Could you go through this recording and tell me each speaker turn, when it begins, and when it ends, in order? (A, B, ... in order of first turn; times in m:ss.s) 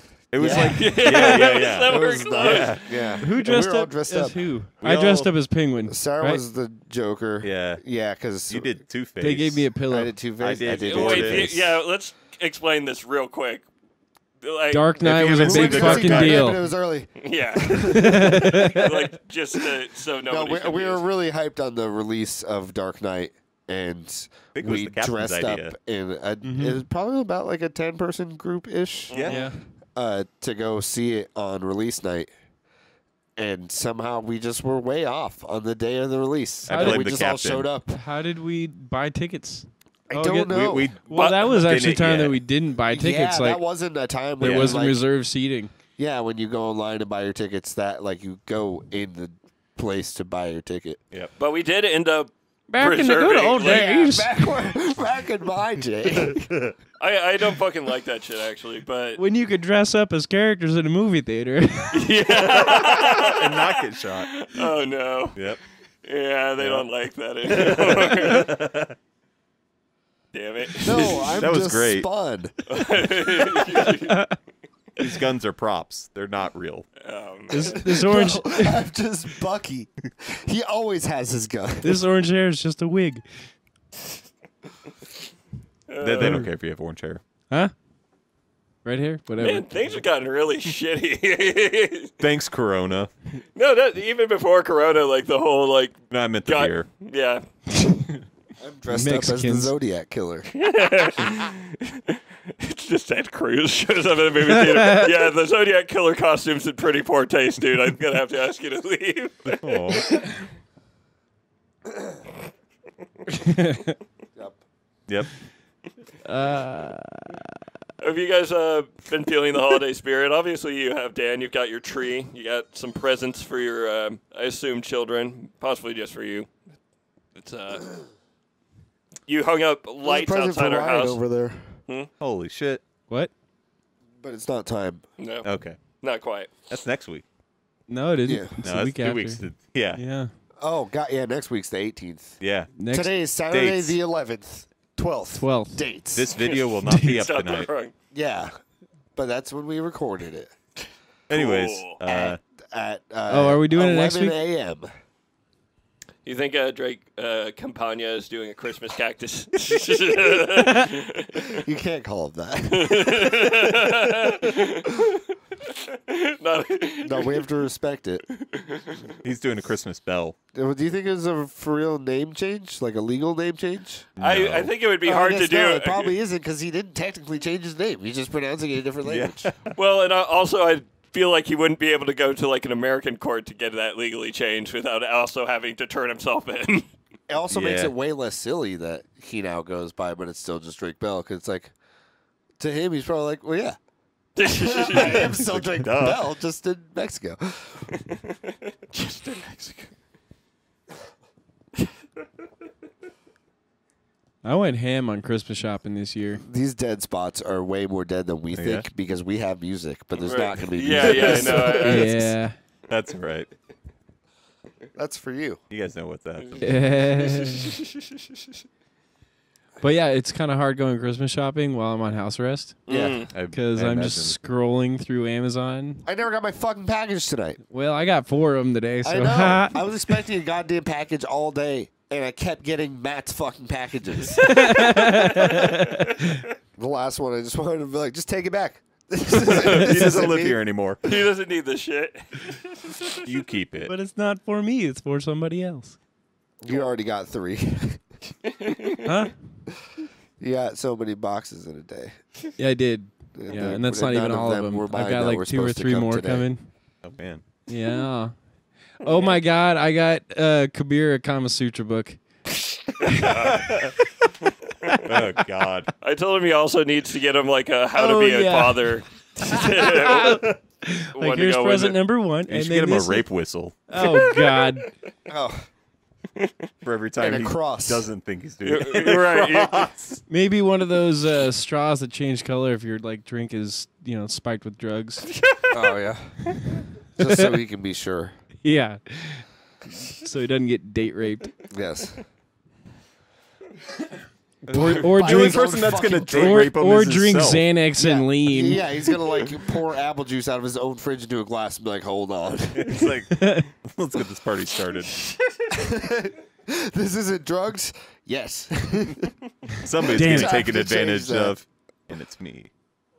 0:00.3-0:02.8 A
0:00.4-0:04.4 B
0:00.5-0:03.1 C
0:03.2-0:06.4 D
0:04.8-0:05.3 A
0:05.9-0:08.8 B
0:07.4-0:07.8 A
0:08.5-0:09.6 A
0:09.2-0:10.2 D
0:09.9-0:11.7 B
0:10.4-0:11.6 A
0:10.7-0:13.6 C
0:14.4-0:14.8 C
0:14.7-0:16.6 D
0:15.0-0:16.4 A
0:15.4-0:18.6 B
0:17.2-0:21.0 C
0:17.8-0:19.0 D
0:20.3-0:29.4 B
0:24.5-0:25.7 A
0:26.4-0:26.8 D
0:29.1-0:29.4 A
0:29.1-0:29.4 C
0:29.3-0:29.6 D
0:29.9-0:32.3 B
0:33.4-0:38.0 B
0:36.7-0:37.3 D
0:36.7-0:37.7 A
0:37.9-0:43.6 D
0:40.1-0:40.9 B
0:40.5-0:42.4 A
0:41.1-0:41.9 C
0:42.9-0:45.0 B
0:44.4-0:45.7 D
0:44.4-0:44.7 A
0:46.0-0:51.0 B
0:51.4-0:53.9 C
0:52.7-0:54.7 D
0:53.6-0:56.5 B
0:57.0-0:59.2 C
0:59.2-1:02.1 D
1:01.9-1:05.4 C
1:02.6-1:04.4 A
1:05.3-1:05.6 A
1:06.0-1:08.5 C
1:06.6-1:06.9 A
1:07.5-1:08.9 A
1:10.3-1:11.3 C
1:10.8-1:12.5 B
1:11.4-1:12.1 A
1:12.7-1:14.2 C
1:13.7-1:14.3 D
1:15.0-1:16.9 A
1:17.0-1:17.9 C
1:17.5-1:18.9 D
1:17.8-1:22.0 B
1:21.8-1:23.3 D
1:25.9-1:26.4 C
1:26.0-1:27.2 A
1:26.2-1:26.5 D
1:28.8-1:30.0 D
1:29.4-1:32.1 C
1:32.2-1:33.1 A
1:33.6-1:37.4 C
1:36.1-1:36.9 A
1:38.6-1:40.6 B
1:38.9-1:39.7 D
1:40.6-1:50.2 C
1:44.7-1:45.1 D
1:49.6-1:50.1 A
1:51.9-1:52.2 B
1:53.5-1:53.9 D
1:55.1-1:55.3 A
1:56.2-1:57.5 D
1:58.0-2:06.5 C
2:07.4-2:08.0 C
2:09.3-2:11.2 C
2:10.0-2:11.8 B
2:12.2-2:12.8 A
2:14.2-2:15.0 B
2:15.2-2:15.5 C
2:15.4-2:15.8 A
2:16.0-2:16.5 C
2:16.7-2:17.2 A
2:17.9-2:20.3 D
2:18.2-2:18.5 B
2:18.6-2:20.0 A
2:20.6-2:22.4 B
2:22.4-2:22.7 A
2:22.7-2:23.1 D
2:22.9-2:26.3 B
2:23.5-2:24.0 A
2:25.3-2:25.8 D
2:26.1-2:27.7 A
2:26.4-2:27.9 C
2:26.9-2:27.2 D
2:28.1-2:28.6 B
2:29.2-2:30.5 B
2:31.3-2:32.4 A
2:31.3-2:32.0 C
2:32.0-2:34.9 B
2:33.3-2:34.4 D
2:36.2-2:41.6 C
2:41.4-2:45.2 B
2:42.7-2:47.5 C
2:47.0-2:48.2 B
2:48.4-2:49.1 C
2:49.2-2:50.4 A
2:50.5-2:54.1 B
2:54.2-2:54.7 A
2:54.2-2:56.2 C
2:55.0-2:59.5 B
2:59.0-2:59.7 A
2:59.7-3:06.9 C
3:07.3-3:11.7 B
3:07.5-3:07.9 A
3:12.6-3:13.8 B
3:14.4-3:15.3 C
3:14.4-3:18.0 B
3:14.9-3:16.2 A
3:19.0-3:19.3 C
3:24.4-3:26.4 D
3:26.4-3:32.0 B
3:28.5-3:28.9 A
3:30.2-3:32.3 C
3:30.9-3:31.9 A
3:31.3-3:32.6 D
3:32.9-3:33.5 A
3:34.9-3:35.6 B
3:35.7-3:37.0 A
3:36.6-3:37.8 D
3:37.2-3:38.3 C
3:39.8-3:46.0 D
3:42.9-3:43.3 C
3:42.9-3:43.2 B
3:43.3-3:44.4 A
3:46.0-3:47.6 B
3:47.7-3:49.9 D
3:49.0-3:54.5 B
3:54.4-3:56.2 D
3:54.5-3:56.0 C
3:56.8-4:00.6 B
3:59.7-4:01.0 A
3:59.8-4:00.1 D
4:01.0-4:03.2 C
4:03.2-4:03.9 A
4:03.8-4:06.0 D
4:06.6-4:08.1 B
4:08.5-4:09.1 C
4:09.0-4:09.3 D
4:10.4-4:12.2 B
4:12.6-4:16.7 D
4:13.3-4:16.5 B
4:17.0-4:17.4 A
4:17.7-4:18.4 D
4:19.0-4:22.2 D
4:19.0-4:19.4 C
4:23.0-4:23.8 C
4:23.4-4:23.9 A
4:24.9-4:25.4 D
4:25.0-4:25.9 A
4:26.0-4:30.5 C
4:28.0-4:33.3 D
4:31.1-4:32.0 C
4:32.5-4:34.0 A
4:33.9-4:34.9 D
4:35.3-4:35.7 B
4:36.8-4:40.2 A
4:37.2-4:38.1 B
4:38.6-4:39.9 C
4:40.3-4:45.3 D
4:45.7-4:46.4 B
4:46.7-4:47.5 D
4:47.2-4:48.4 B
4:48.6-4:51.6 D
4:51.7-4:52.2 B
4:54.7-4:56.7 B
4:54.7-4:57.6 A
4:54.7-4:59.1 D
4:58.0-5:03.1 B
5:02.7-5:05.1 A
5:03.3-5:03.7 D
5:05.7-5:09.4 B
5:09.8-5:12.7 A
5:10.0-5:11.6 B
5:10.1-5:10.6 D